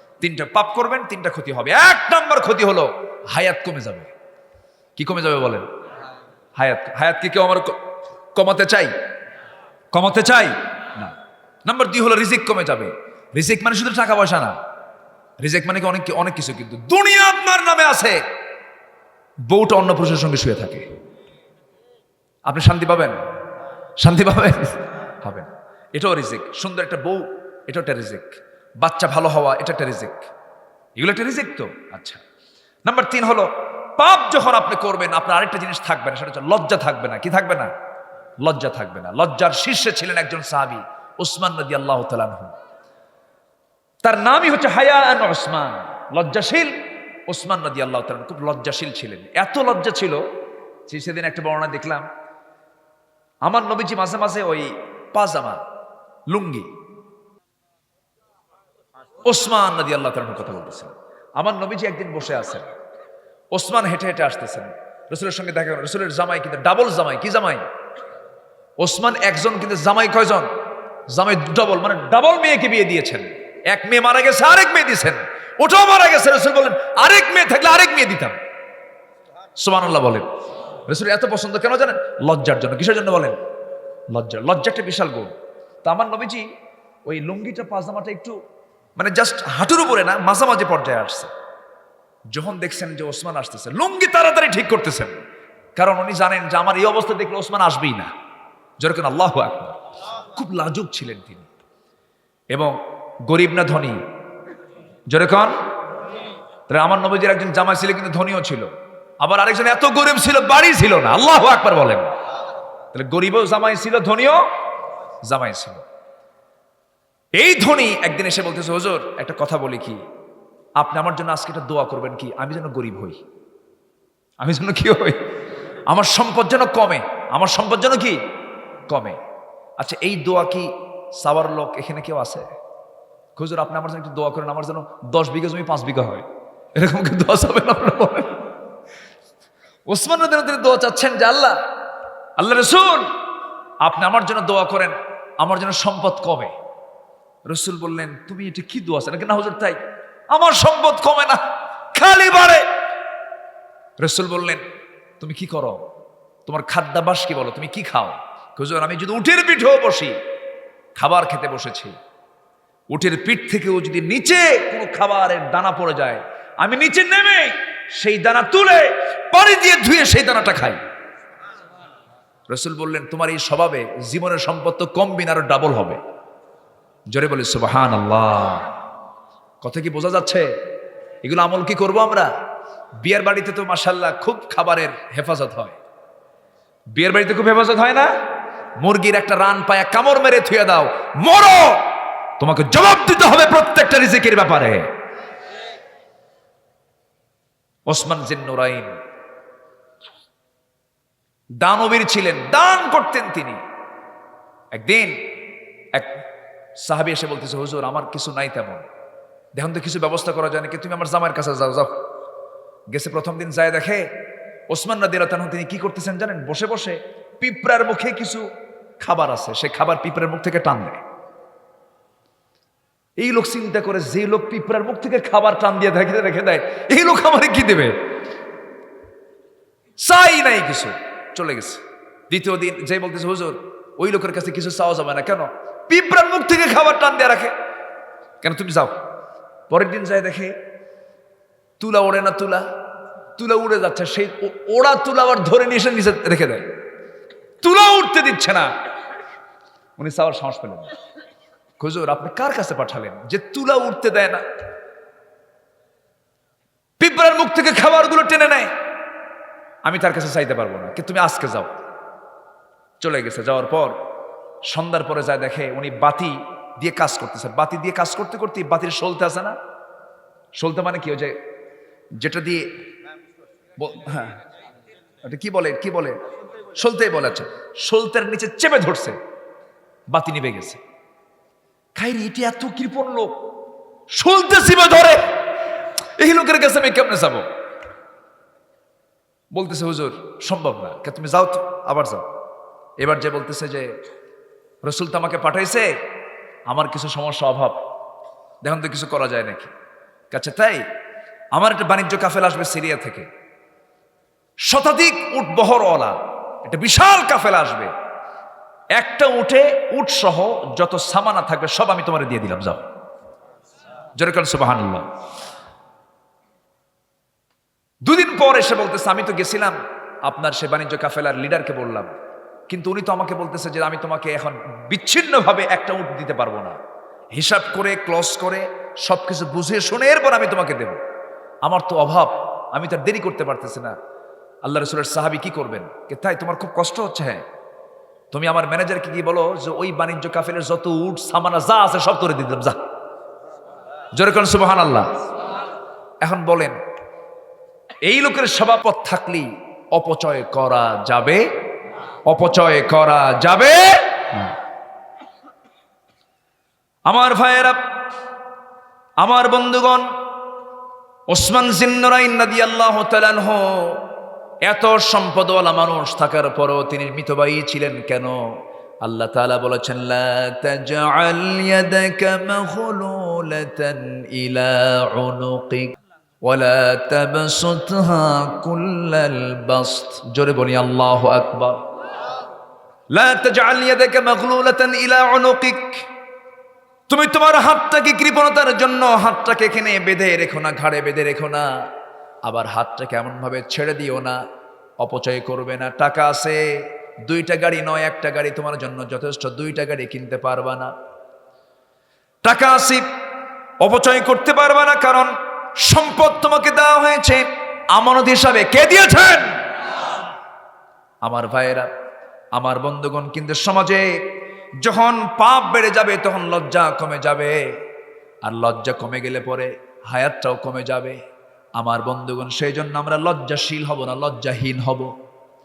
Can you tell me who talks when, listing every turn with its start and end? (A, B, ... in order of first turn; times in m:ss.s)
0:00.2-0:04.1 A
0:05.0-0:05.7 A
0:06.6-0:07.8 A
0:08.3-0:08.9 A
0:09.9-0:14.6 A
0:15.4-0:18.2 A
0:19.5-0:20.8 A
0:22.5-0:23.2 A
0:24.0-0:30.3 A
0:31.0-0:32.2 A
0:32.8-0:37.7 A
0:38.4-0:42.5 A
0:44.0-0:46.8 A
0:47.3-0:50.2 A
0:50.9-0:52.1 A
0:53.4-0:55.6 A
0:56.3-0:56.7 A
0:59.2-1:02.7 A
1:03.5-1:07.6 A
1:08.8-1:10.5 A
1:11.1-1:18.4 A
1:19.6-1:20.3 A
1:20.8-1:23.4 A
1:24.1-1:25.3 A
1:25.8-1:26.5 A
1:27.0-1:28.3 A
1:29.0-1:31.3 A
1:32.3-1:35.1 A
1:35.8-1:38.1 A
1:38.8-1:41.5 A
1:42.5-1:44.0 A
1:45.1-1:45.6 A
1:46.7-1:48.7 A
1:49.2-1:52.1 A
1:52.9-1:54.4 A
1:55.2-1:55.8 A
1:57.4-2:00.0 A
2:00.8-2:03.2 A
2:04.4-2:05.2 A
2:05.9-2:08.2 A
2:08.9-2:09.2 A
2:09.8-2:12.5 A
2:13.4-2:18.4 A
2:19.9-2:21.6 A
2:22.4-2:23.1 A
2:23.8-2:26.5 A
2:27.5-2:29.8 A
2:30.3-2:31.4 A
2:31.9-2:32.7 A
2:34.0-2:34.6 A
2:35.2-2:35.8 A
2:36.4-2:40.1 A
2:41.0-2:41.9 A
2:42.9-2:50.8 A
2:52.5-2:56.0 A
2:57.1-2:58.7 A
2:59.6-3:00.5 A
3:01.2-3:02.3 A
3:03.0-3:05.8 A
3:06.9-3:08.1 A
3:08.8-3:11.8 A
3:12.4-3:14.8 A
3:17.9-3:19.0 A
3:21.6-3:23.6 A
3:24.7-3:25.2 A
3:25.9-3:26.2 A
3:26.8-3:28.9 A
3:29.5-3:31.9 A
3:32.9-3:34.1 A
3:34.7-3:38.4 A
3:39.0-3:41.0 A
3:43.2-3:48.0 A
3:50.0-3:57.5 A
3:58.4-3:59.0 A
3:59.7-4:00.6 A
4:01.8-4:02.7 A
4:03.4-4:06.6 A
4:07.6-4:08.7 A
4:10.0-4:10.9 A
4:11.8-4:14.4 A
4:17.0-4:18.7 A
4:19.8-4:21.7 A
4:23.0-4:23.9 A
4:24.7-4:29.6 A
4:30.6-4:31.4 A
4:32.2-4:32.7 A
4:33.8-4:34.4 A
4:35.2-4:36.2 A
4:36.7-4:39.2 A
4:40.1-4:40.8 A
4:42.0-4:43.4 A
4:44.1-4:45.2 A
4:46.2-4:47.4 A
4:49.5-4:52.3 A
4:53.0-4:53.9 A
4:54.8-4:55.9 A
4:56.7-4:57.8 A
4:58.6-4:59.7 A
5:00.3-5:00.8 A
5:01.5-5:03.3 A
5:04.7-5:07.9 A
5:09.0-5:12.8 A
5:14.2-5:15.1 A
5:18.0-5:22.1 A
5:22.7-5:26.8 A
5:27.3-5:31.0 A
5:31.6-5:33.9 A
5:34.6-5:37.4 A
5:38.3-5:42.8 A
5:44.1-5:45.2 A
5:46.2-5:46.8 A
5:48.0-5:51.4 A
5:52.3-5:54.5 A
5:57.1-5:57.8 A
5:59.2-6:00.1 A
6:01.3-6:04.1 A
6:04.6-6:08.4 A
6:09.0-6:21.8 A
6:23.1-6:26.0 A
6:27.1-6:31.7 A
6:32.4-6:34.4 A
6:35.0-6:36.6 A
6:37.2-6:40.9 A
6:42.4-6:43.0 A
6:43.8-6:49.5 A
6:51.2-6:51.9 A
6:52.5-6:54.2 A
6:54.8-6:57.7 A
6:58.4-7:01.2 A
7:01.8-7:05.1 A